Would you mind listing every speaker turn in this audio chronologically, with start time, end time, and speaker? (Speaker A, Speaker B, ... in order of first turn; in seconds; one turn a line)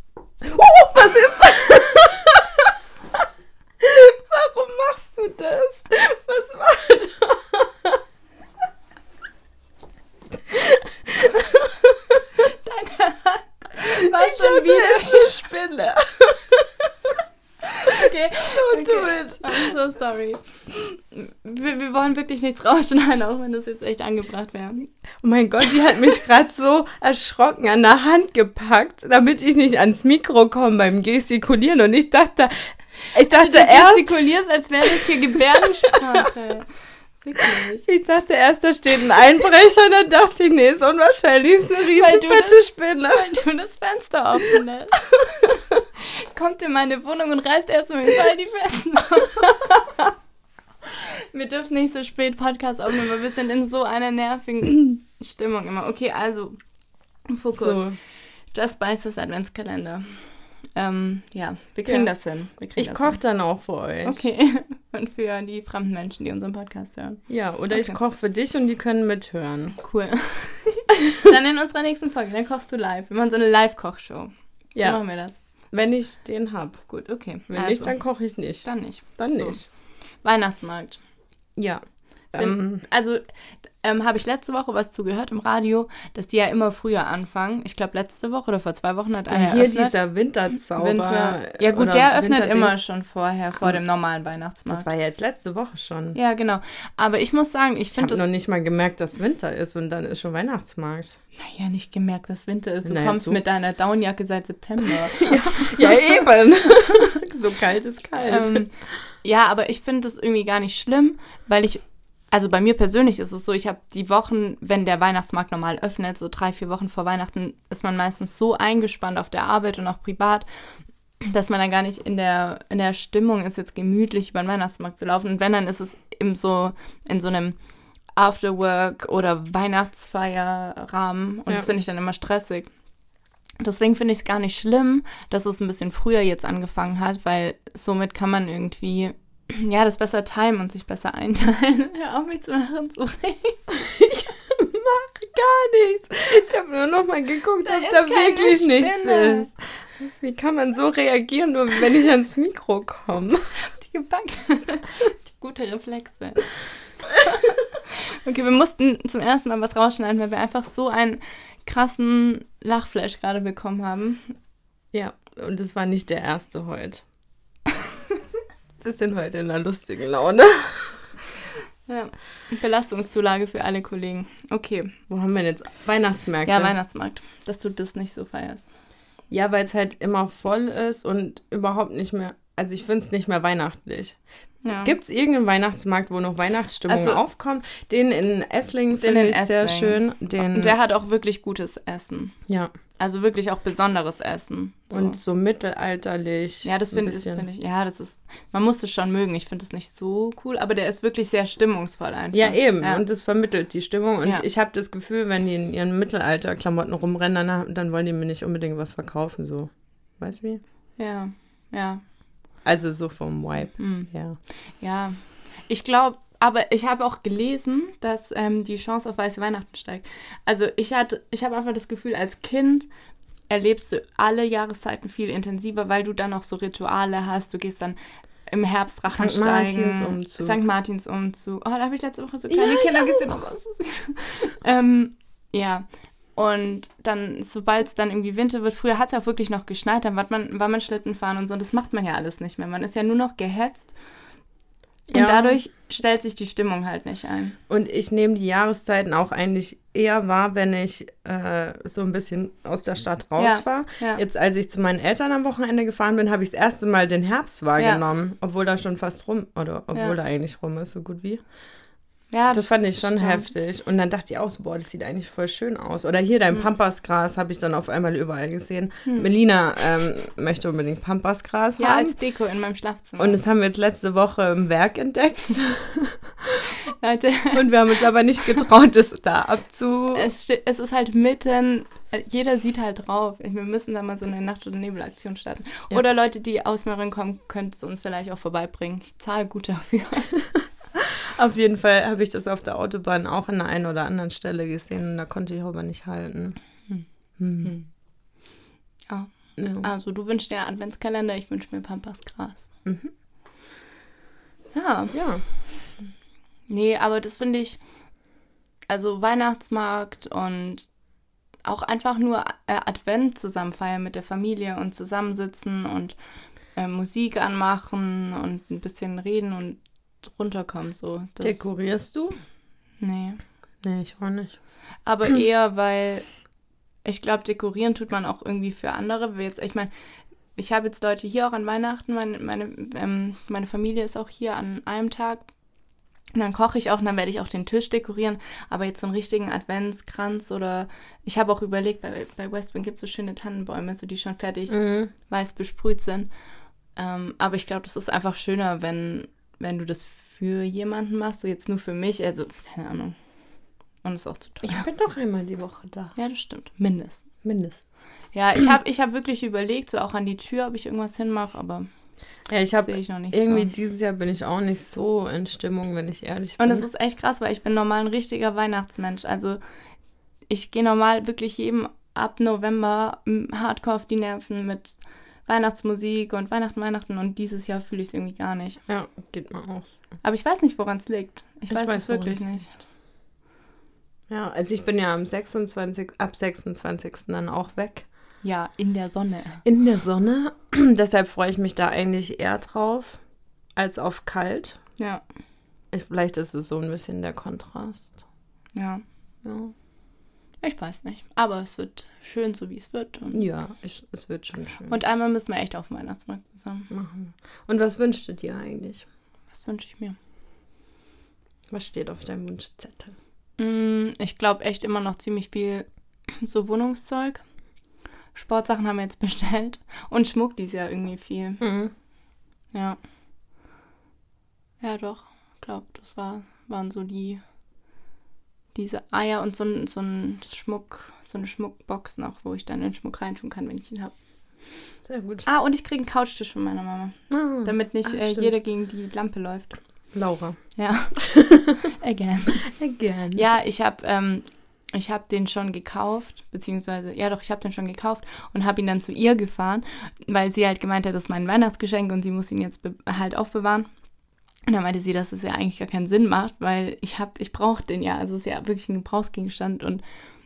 Speaker A: 0.4-2.7
Speaker A: 3.8-7.9
Speaker A: 10.5-11.7
Speaker B: 12.5-15.4
Speaker A: 13.8-16.7
Speaker B: 17.8-24.9
Speaker A: 18.4-19.7
Speaker A: 25.2-34.1
Speaker B: 33.2-36.7
Speaker A: 34.9-35.4
Speaker B: 37.2-37.9
Speaker A: 37.8-43.3
Speaker B: 41.9-49.7
Speaker B: 50.9-56.6
Speaker B: 57.3-57.9
Speaker A: 57.5-58.0
Speaker B: 58.5-63.2
Speaker A: 62.8-64.3
Speaker B: 64.0-68.0
Speaker A: 67.3-69.8
Speaker B: 69.8-75.4
Speaker A: 74.7-75.0
Speaker A: 75.7-76.8
Speaker B: 76.9-78.0
Speaker A: 77.5-79.6
Speaker B: 78.6-79.7
Speaker B: 80.2-81.0
Speaker A: 81.6-82.8
Speaker B: 82.3-83.2
Speaker B: 83.8-90.0
Speaker A: 89.3-92.8
Speaker B: 90.7-94.9
Speaker A: 94.7-96.2
Speaker B: 96.1-98.2
Speaker A: 97.9-101.2
Speaker B: 101.4-107.2
Speaker A: 102.8-103.4
Speaker A: 104.9-108.7
Speaker B: 108.2-120.5
Speaker B: 121.2-127.6
Speaker B: 128.2-132.7
Speaker B: 133.6-143.6
Speaker A: 143.7-153.5
Speaker B: 147.6-149.5
Speaker B: 153.6-164.3
Speaker A: 164.9-167.0
Speaker A: 168.8-171.1
Speaker B: 171.9-174.9
Speaker A: 175.1-176.7
Speaker B: 176.4-178.7
Speaker A: 179.3-184.2
Speaker B: 184.6-184.9
Speaker A: 184.8-190.7
Speaker B: 186.9-187.2
Speaker B: 189.0-192.4
Speaker B: 193.0-195.2
Speaker A: 194.9-197.4
Speaker B: 196.6-203.0
Speaker A: 202.3-210.6
Speaker B: 211.0-212.0
Speaker A: 212.6-214.4
Speaker B: 213.8-214.1
Speaker B: 214.8-222.9
Speaker B: 223.5-227.9
Speaker B: 228.5-243.9
Speaker A: 229.1-230.6
Speaker A: 232.5-233.4
Speaker A: 245.1-245.6
Speaker B: 245.1-247.6
Speaker A: 247.7-261.4
Speaker B: 253.4-254.2
Speaker B: 257.8-258.0
Speaker B: 262.3-263.5
Speaker A: 262.5-272.1
Speaker B: 269.0-269.3
Speaker B: 271.8-273.4
Speaker A: 273.2-276.7
Speaker B: 276.9-277.7
Speaker A: 277.5-280.3
Speaker B: 280.1-290.4
Speaker A: 290.9-296.6
Speaker A: 297.4-297.7
Speaker B: 297.6-297.9
Speaker B: 299.1-302.7
Speaker A: 299.6-299.9
Speaker A: 302.8-303.1
Speaker B: 304.7-305.2
Speaker A: 305.1-305.4
Speaker B: 306.7-307.8
Speaker B: 308.9-310.9
Speaker B: 311.6-316.1
Speaker B: 316.7-321.6
Speaker A: 321.4-322.4
Speaker B: 323.0-323.4
Speaker A: 323.8-324.6
Speaker B: 325.1-326.3
Speaker B: 327.0-329.9
Speaker B: 330.6-335.5
Speaker B: 336.3-346.3
Speaker A: 344.7-345.1
Speaker B: 347.0-353.1
Speaker B: 354.0-354.9
Speaker A: 354.6-356.1
Speaker B: 356.1-357.2
Speaker A: 357.4-357.8
Speaker B: 358.3-361.9
Speaker A: 362.5-366.9
Speaker B: 362.8-363.7
Speaker B: 366.6-369.6
Speaker B: 370.5-378.8
Speaker A: 378.9-379.9
Speaker B: 380.2-382.8
Speaker A: 381.7-382.7
Speaker A: 384.3-388.1
Speaker B: 388.4-389.6
Speaker A: 389.6-393.2
Speaker A: 393.8-394.8
Speaker B: 395.0-395.2
Speaker A: 395.9-398.2
Speaker B: 398.7-399.0
Speaker A: 399.4-399.7
Speaker B: 400.6-403.4
Speaker A: 403.3-404.9
Speaker B: 404.9-406.9
Speaker A: 406.9-409.1
Speaker B: 409.5-410.1
Speaker A: 411.7-413.1
Speaker B: 413.6-417.4
Speaker B: 418.3-421.6
Speaker A: 421.6-421.9
Speaker B: 422.7-423.0
Speaker B: 424.8-427.4
Speaker B: 428.7-434.1
Speaker A: 435.0-435.4
Speaker B: 435.4-439.8
Speaker A: 437.3-438.5
Speaker A: 440.1-440.6
Speaker B: 440.8-441.3
Speaker A: 441.2-441.9
Speaker B: 441.8-442.6
Speaker A: 442.6-443.4
Speaker B: 443.3-453.9
Speaker B: 454.7-460.0